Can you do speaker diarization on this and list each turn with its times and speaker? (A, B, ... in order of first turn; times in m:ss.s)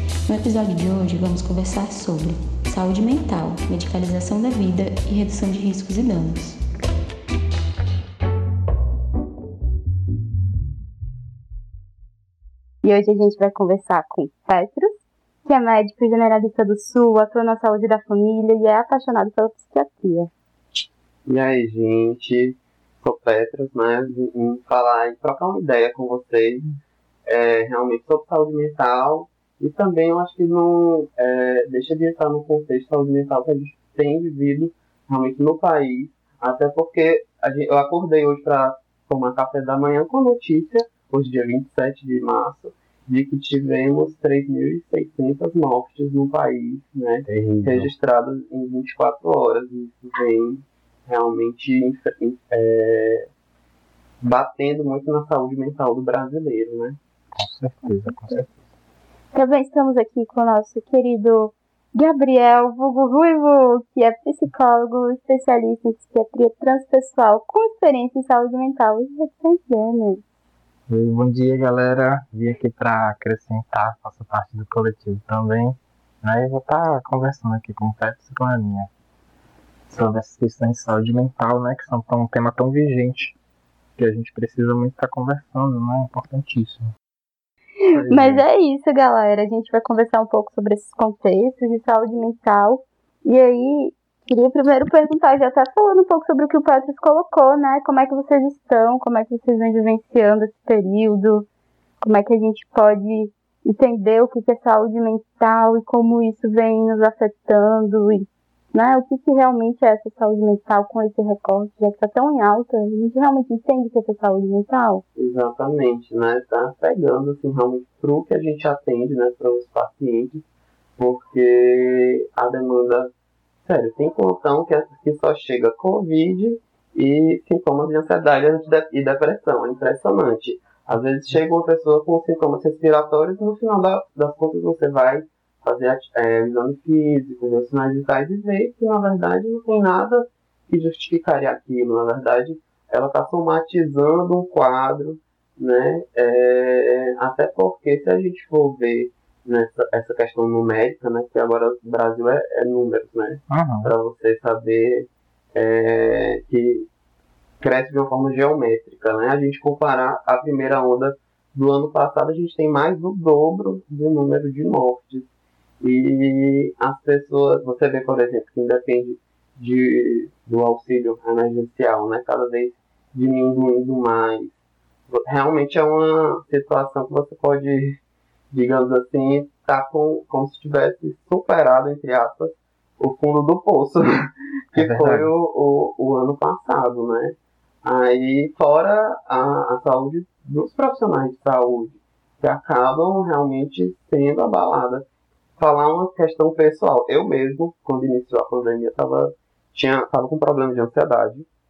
0:00.3-0:06.6 A
0:12.8-0:20.3 B
0:21.3-0:26.7 C
0:27.2-0:53.3 C
0:47.3-0:47.9 D
0:54.2-0:57.0 C
0:57.3-0:58.5 D
0:59.3-1:10.2 B
1:10.9-1:18.9 D
1:19.9-1:23.3 D
1:24.0-1:26.9 D
1:27.8-1:41.5 B
1:27.9-1:28.4 D
1:42.0-1:55.0 B
1:55.2-2:00.4 C
2:01.0-2:03.1 C
2:03.6-2:36.8 C
2:33.5-2:33.9 D
2:37.6-2:45.3 C
2:45.8-2:54.5 C
2:55.1-2:58.0 C
2:58.5-3:15.0 C
3:04.7-3:05.3 D
3:15.6-3:21.4 C